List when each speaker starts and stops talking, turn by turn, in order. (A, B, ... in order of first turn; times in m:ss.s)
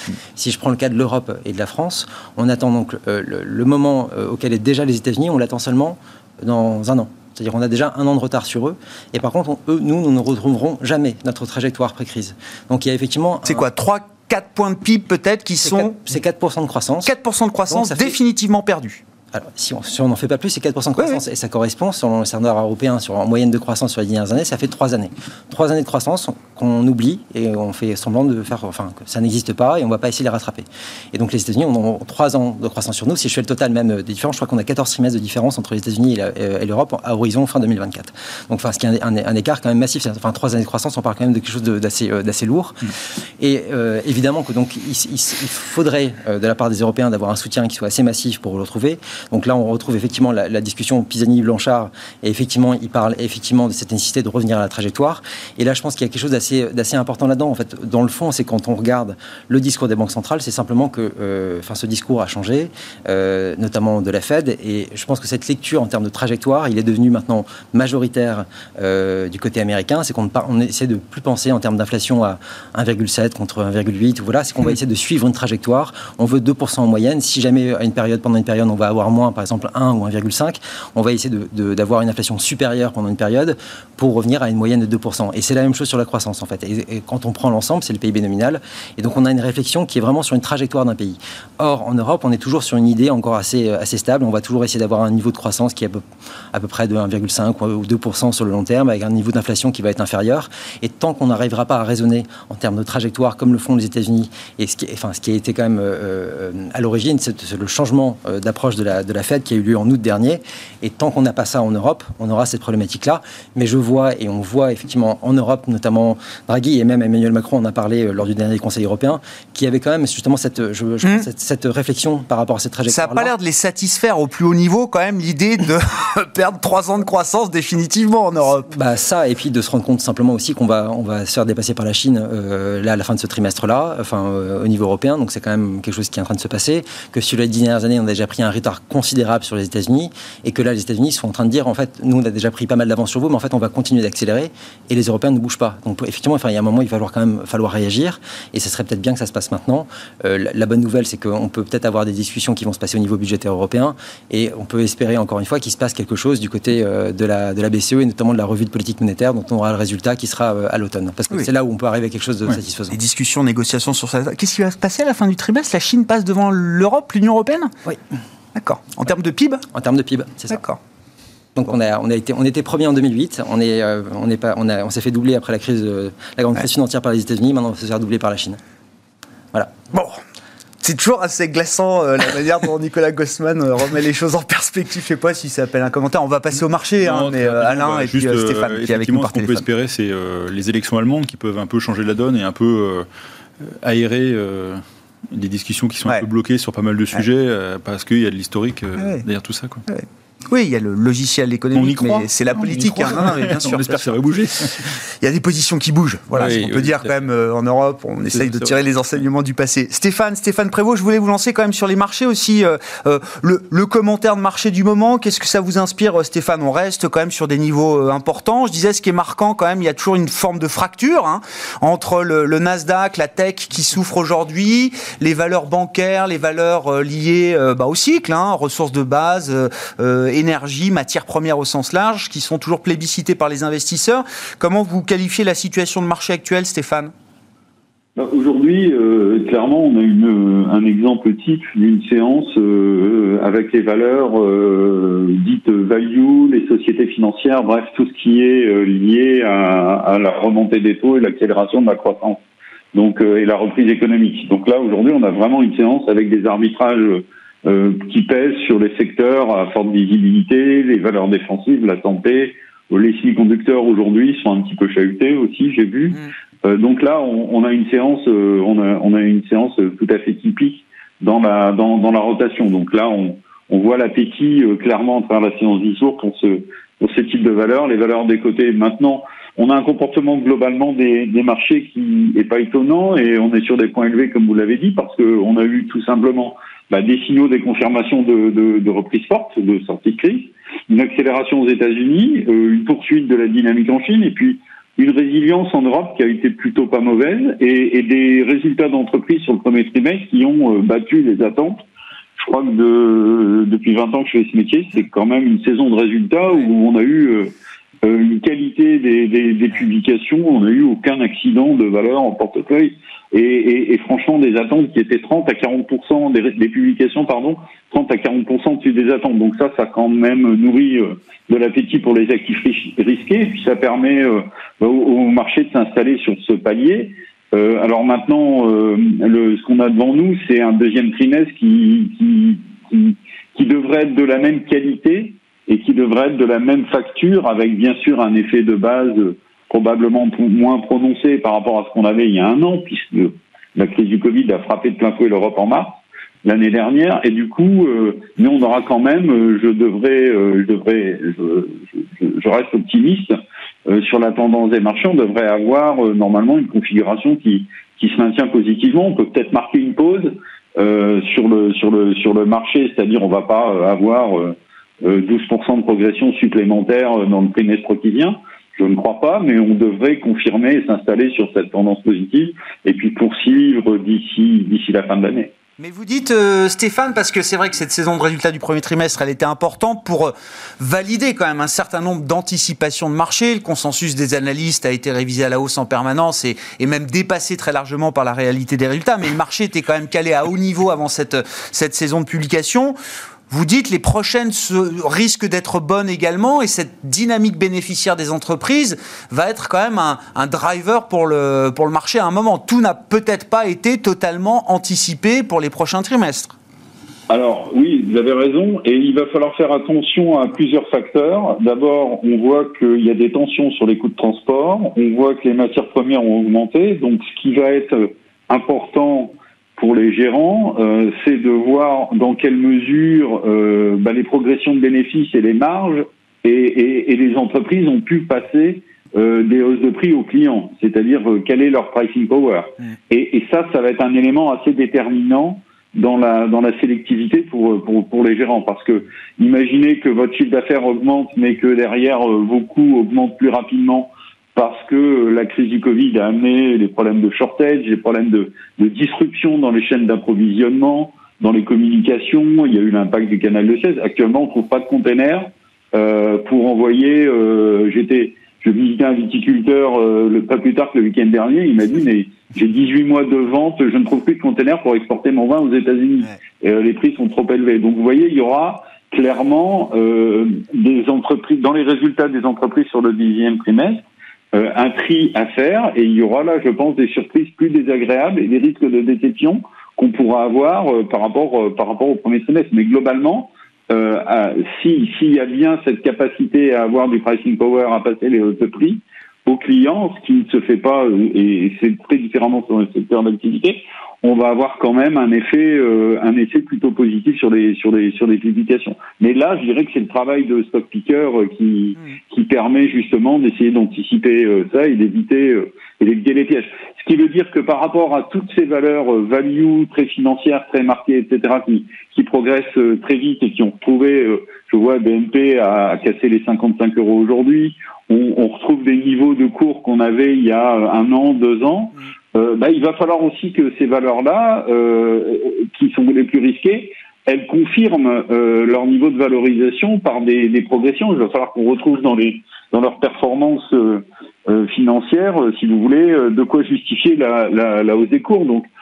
0:00.4-0:13.7 A
0:13.5-0:16.0 B
0:15.6-0:17.1 A
0:17.0-0:19.0 B
0:17.7-0:18.2 A
0:19.3-1:36.0 A
1:36.5-2:03.3 A
2:02.9-2:08.8 B
2:08.7-2:43.0 A
2:42.9-2:47.7 B
2:48.6-2:49.7 B
2:49.7-2:50.6 A
2:50.5-2:50.8 B
2:51.6-2:58.6 A
2:59.9-3:00.2 B
3:00.8-3:09.6 B
3:07.0-3:13.1 C
3:13.6-3:19.8 C
3:19.0-3:19.2 B
3:19.9-3:24.0 B
3:21.7-3:25.0 C
3:25.1-3:57.1 B
3:26.3-3:27.2 C
3:28.3-3:28.8 C
3:58.2-4:12.4 D
4:12.9-5:01.8 D
5:02.4-5:07.5 D
5:08.0-5:53.3 D
5:53.9-6:15.5 D
6:15.8-6:33.0 B
6:33.5-6:46.6 B
6:47.3-8:58.7 D